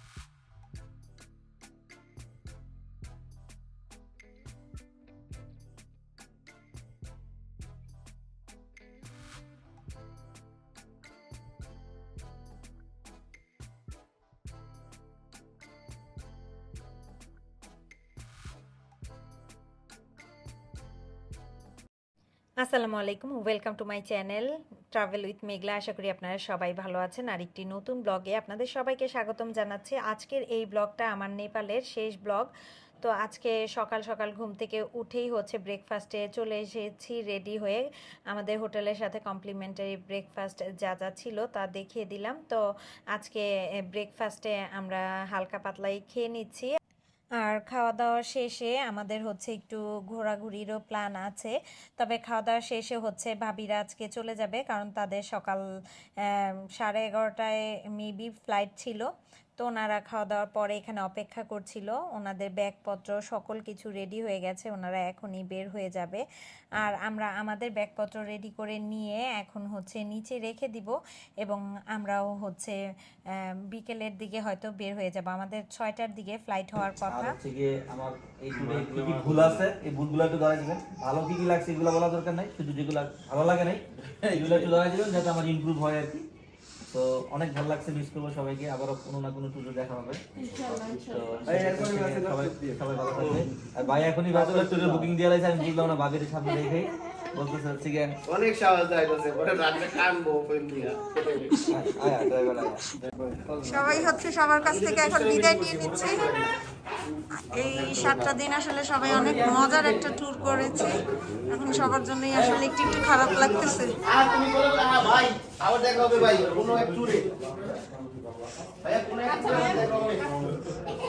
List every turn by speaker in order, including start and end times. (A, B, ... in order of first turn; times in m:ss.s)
0:22.6-0:32.5 A
0:33.0-0:42.6 A
0:43.1-0:46.7 A
0:47.4-0:55.6 A
0:56.2-1:06.2 A
1:06.8-1:12.8 A
1:13.3-1:17.4 A
1:17.1-1:26.2 B
1:18.6-1:19.6 C
1:26.9-1:38.1 B
1:31.8-1:32.6 C
1:33.2-1:33.4 C
1:34.3-1:35.1 C
1:38.3-1:41.7 C
1:41.7-1:43.0 B
1:43.5-1:43.8 C
1:43.7-1:46.2 D
1:44.7-1:46.5 C
1:47.5-1:54.0 D
1:47.9-1:48.4 C
1:54.0-1:57.5 C
1:58.8-2:00.8 C